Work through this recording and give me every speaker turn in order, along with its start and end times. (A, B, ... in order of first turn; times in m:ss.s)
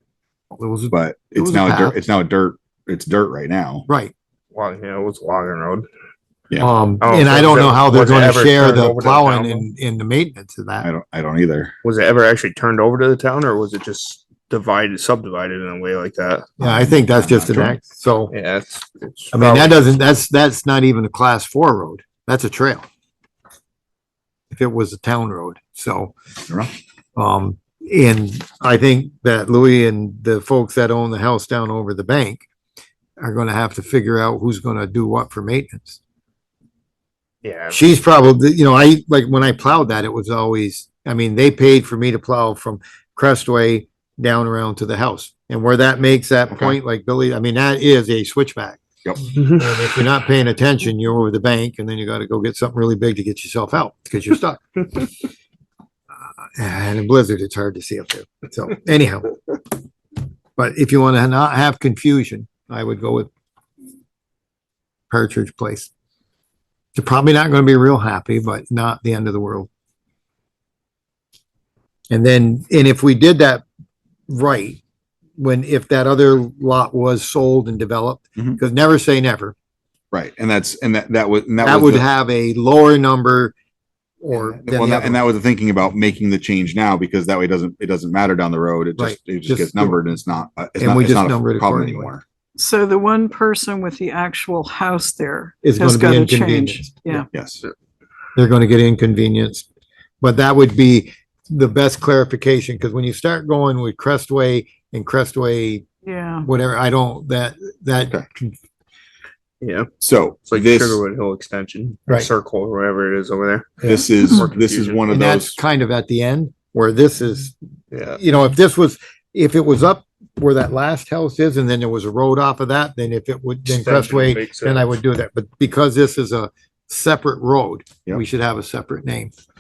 0:00.6-0:02.0 A
0:00.9-0:03.9 B
0:03.9-0:04.1 A
0:04.5-0:05.8 C
0:06.6-0:10.9 A
0:07.0-0:09.6 C
0:10.8-0:11.7 B
0:11.8-0:16.5 C
0:16.6-0:18.3 A
0:16.6-0:17.8 B
0:18.3-0:19.8 C
0:19.3-0:22.9 A
0:24.5-0:26.1 A
0:27.2-0:32.4 A
0:33.2-0:36.0 A
0:37.4-0:37.8 C
0:37.7-0:54.8 A
0:46.5-0:46.8 B
0:56.5-0:59.4 A
1:00.6-1:03.3 A
1:05.1-1:05.9 A
1:07.0-1:09.7 A
1:12.1-1:13.6 A
1:14.3-1:14.8 A
1:15.4-1:19.6 A
1:20.1-1:22.1 B
1:21.6-1:23.5 A
1:24.2-1:25.2 A
1:24.3-1:32.2 B
1:29.0-1:30.0 A
1:30.8-1:32.1 A
1:32.6-1:37.3 D
1:35.6-1:37.2 A
1:37.3-1:37.6 B
1:38.4-1:39.7 A
1:40.2-1:45.8 A
1:46.0-1:46.5 D
1:46.4-1:48.6 A
1:49.6-1:49.9 C
1:50.0-1:51.0 B
1:50.4-1:55.1 C
1:53.8-1:55.6 B
1:55.1-1:57.6 A
1:57.9-1:58.2 C
1:58.1-2:09.3 A
2:03.7-2:04.9 C